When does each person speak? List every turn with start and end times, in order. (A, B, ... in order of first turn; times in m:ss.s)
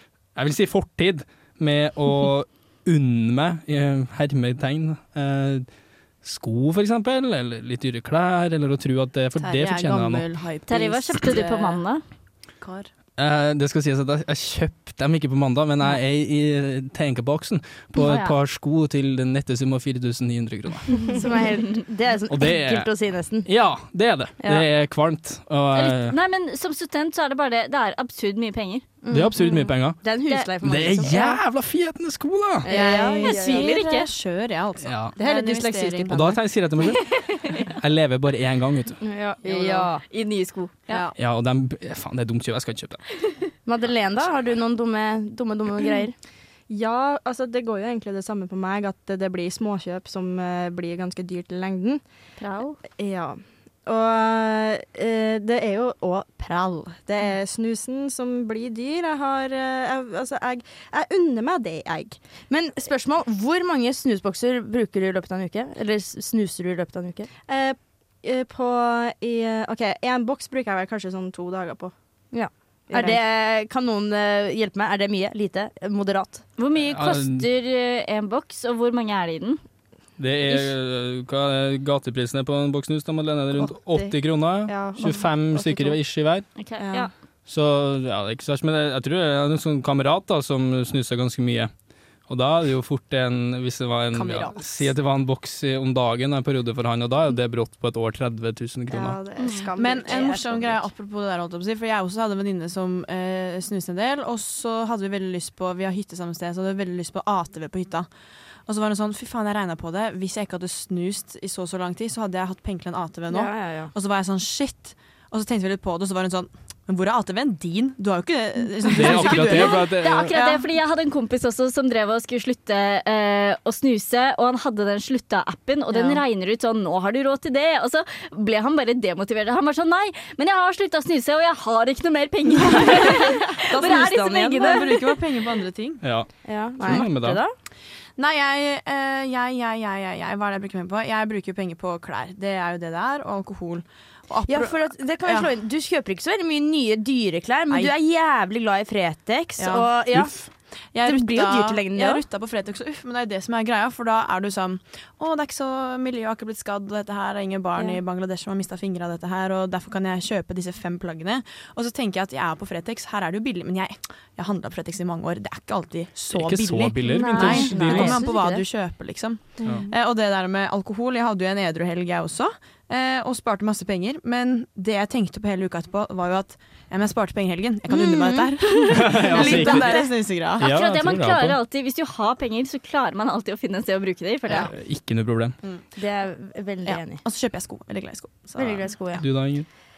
0:00.4-0:05.7 A
0:06.2-0:10.3 A
0:09.4-0:11.8 B
0:10.7-0:12.0 C
0:12.6-0:12.9 B
0:13.2-0:21.1 A
0:18.0-0:18.4 C
0:21.1-0:23.5 D
0:22.3-0:22.9 A
0:23.4-0:26.2 A
0:25.8-0:28.9 C
0:29.0-0:31.4 D
0:29.1-0:30.0 A
0:30.6-0:32.7 A
0:32.6-0:33.6 D
0:32.7-0:36.3 B
0:33.0-0:33.7 E
0:33.1-0:34.1 C
0:34.8-0:35.2 A
0:35.2-0:36.4 E
0:36.1-0:39.0 A
0:39.0-0:40.0 D
0:39.5-0:40.8 C
0:40.9-0:41.1 B
0:41.2-0:43.4 A
0:43.6-0:46.2 D
0:46.7-0:52.0 E
0:52.4-0:52.8 C
0:52.8-1:02.2 E
1:02.5-1:07.3 D
1:07.5-1:11.9 E
1:12.3-1:16.4 D
1:12.9-1:13.2 E
1:16.6-1:19.6 C
1:16.8-1:17.5 A
1:20.2-1:26.5 A
1:20.5-1:20.7 C
1:23.5-1:26.0 E
1:25.0-1:25.3 C
1:26.6-1:27.1 C
1:26.8-1:27.1 E
1:27.5-1:31.7 A
1:32.3-1:39.2 A
1:34.1-1:34.9 B
1:38.9-1:40.8 E
1:39.4-1:39.7 C
1:39.8-1:48.1 B
1:48.7-2:00.6 B
1:53.3-1:53.9 D
1:58.9-2:00.3 A
1:59.3-2:14.9 C
2:05.9-2:06.2 D
2:13.7-2:15.0 D
2:14.5-2:16.1 B
2:16.0-2:17.4 A
2:16.4-2:17.5 D
2:18.2-2:25.5 B
2:24.5-2:32.2 D
2:27.7-2:27.9 B
2:29.6-3:00.7 B
2:30.1-2:30.5 A
2:46.3-2:48.2 A
2:47.0-2:48.6 D
2:57.9-3:00.1 D
2:58.9-3:00.0 A
3:00.6-3:01.6 A
3:00.6-3:04.7 C
3:04.7-3:05.6 A
3:06.0-3:07.2 D
3:06.8-3:08.9 B
3:08.6-3:09.5 D
3:09.1-3:09.7 A